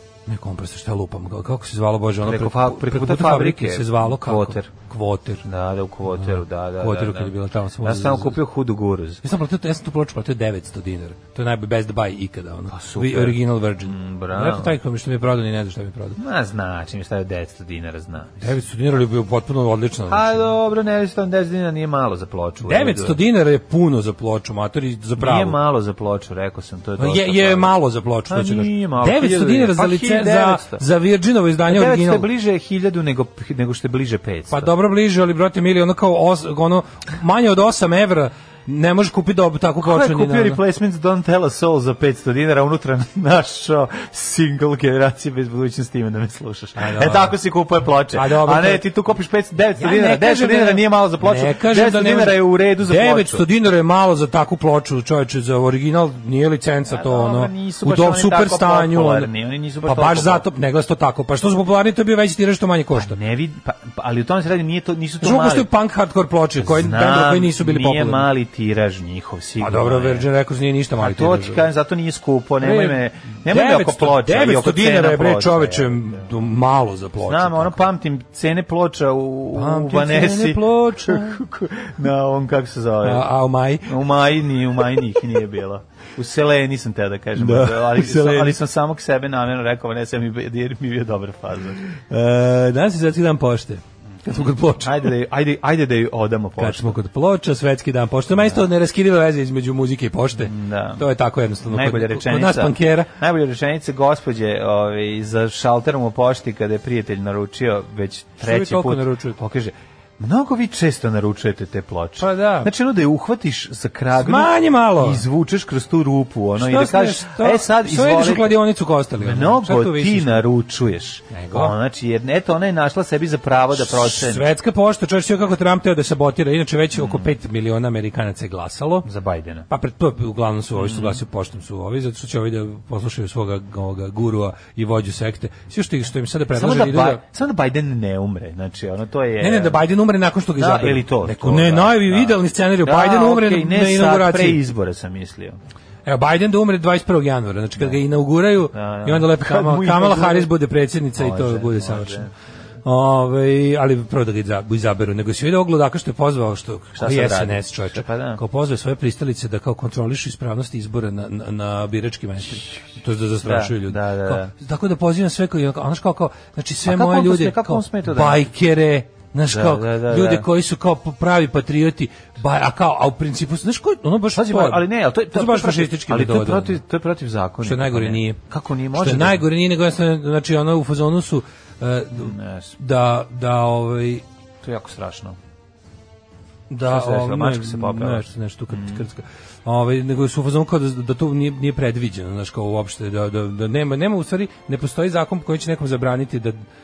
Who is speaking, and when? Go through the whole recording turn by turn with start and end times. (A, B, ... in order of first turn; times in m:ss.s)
0:00.2-0:05.4 A
0:02.2-0:04.7 B
0:05.4-0:09.2 B
0:06.1-0:08.4 A
0:09.2-0:16.2 A
0:12.7-0:14.7 B
0:16.2-0:18.5 B
0:18.4-0:20.4 A
0:20.1-0:23.2 B
0:22.6-0:25.6 A
0:25.2-0:27.8 B
0:27.0-0:32.3 A
0:28.3-0:30.8 B
0:31.6-0:34.7 B
0:34.5-0:40.6 A
0:39.8-0:53.5 B
0:46.8-0:47.4 A
0:48.1-0:48.9 A
0:49.8-0:59.3 A
0:56.8-1:00.4 B
0:59.8-1:03.2 A
1:02.9-1:05.7 B
1:05.2-1:08.2 A
1:06.6-1:10.3 B
1:09.6-1:11.7 A
1:11.0-1:16.5 B
1:12.6-1:17.9 A
1:17.2-1:23.2 B
1:19.5-1:21.4 A
1:23.0-1:24.0 A
1:23.9-1:31.8 B
1:27.4-1:28.6 A
1:32.1-1:35.0 A
1:34.8-1:37.0 B
1:36.6-1:43.1 A
1:40.4-1:41.0 B
1:41.6-1:58.6 B
1:48.4-1:49.4 A
1:52.2-1:52.7 A
1:54.2-1:55.2 A
1:56.6-2:00.4 A
1:59.2-2:04.5 B
2:01.3-2:01.7 A
2:03.7-2:09.1 A
2:06.9-2:07.3 B
2:09.0-2:09.7 B
2:09.7-2:17.2 A
2:10.8-2:11.2 B
2:16.5-2:19.8 B
2:19.4-2:24.6 A
2:20.6-2:25.6 B
2:26.0-2:32.3 A
2:28.7-2:30.5 B
2:31.1-2:32.3 B
2:32.8-2:56.8 A
2:37.0-2:38.4 B
2:43.4-2:44.5 B
2:46.8-2:48.4 B
2:49.5-2:50.5 B
2:54.3-2:59.4 B
2:57.6-2:58.4 A
2:58.9-3:04.2 A
3:02.2-3:02.7 B
3:04.6-3:05.4 B
3:06.7-3:16.6 A
3:06.8-3:09.0 B